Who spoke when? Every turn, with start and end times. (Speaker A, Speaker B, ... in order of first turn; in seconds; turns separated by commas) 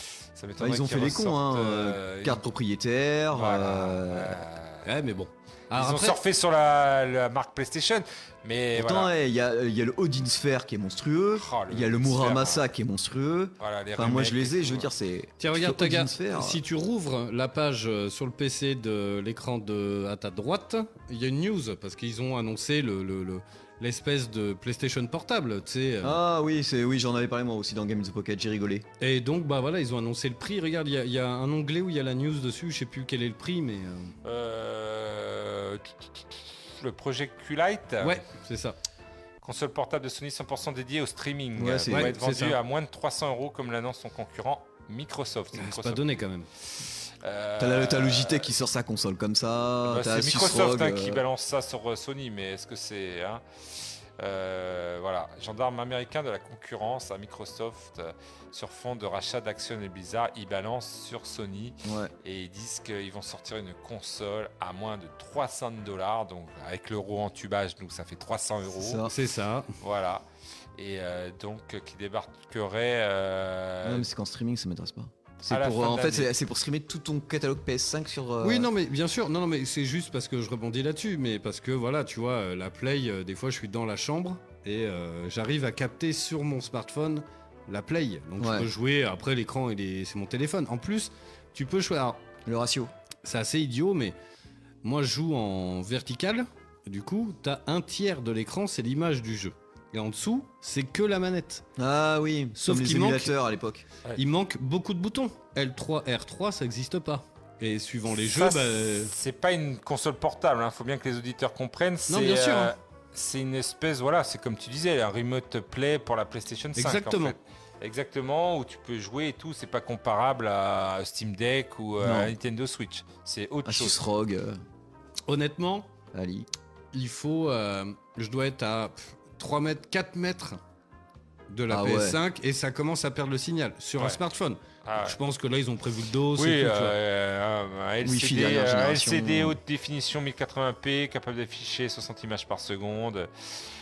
Speaker A: 0.3-2.4, Speaker B: 0.6-4.4, Speaker A: 3.3-4.8, Speaker C: 4.8-6.2, Speaker A: 5.7-9.1, Speaker B: 8.7-16.6, Speaker A: 11.3-12.6, Speaker A: 13.6-14.9, Speaker C: 15.4-26.2, Speaker B: 26.0-28.9, Speaker C: 29.0-34.1, Speaker A: 34.2-38.2, Speaker C: 38.0-38.8, Speaker A: 39.4-46.2, Speaker B: 41.5-42.1, Speaker C: 41.9-42.6, Speaker C: 45.5-46.5, Speaker A: 46.8-48.5, Speaker B: 47.6-51.2, Speaker A: 49.9-53.4, Speaker A: 54.2-69.0, Speaker B: 61.8-62.1, Speaker B: 68.7-69.1, Speaker C: 69.1-69.7, Speaker A: 69.8-70.2, Speaker A: 70.8-74.1, Speaker B: 73.8-78.7, Speaker A: 75.5-76.3, Speaker C: 78.4-92.2, Speaker B: 88.4-88.7, Speaker B: 92.4-92.9, Speaker C: 93.2-94.2, Speaker C: 94.8-101.6, Speaker B: 101.8-103.8, Speaker C: 102.5-103.3, Speaker C: 104.2-109.1, Speaker A: 108.2-124.0, Speaker C: 112.1-112.7, Speaker C: 116.8-117.3, Speaker B: 122.0-122.3, Speaker B: 123.6-124.6, Speaker C: 125.3-125.9, Speaker B: 126.1-126.5, Speaker C: 126.9-130.6, Speaker C: 131.5-136.9, Speaker B: 131.7-132.2, Speaker A: 134.8-135.2, Speaker A: 136.3-143.3, Speaker B: 138.0-139.6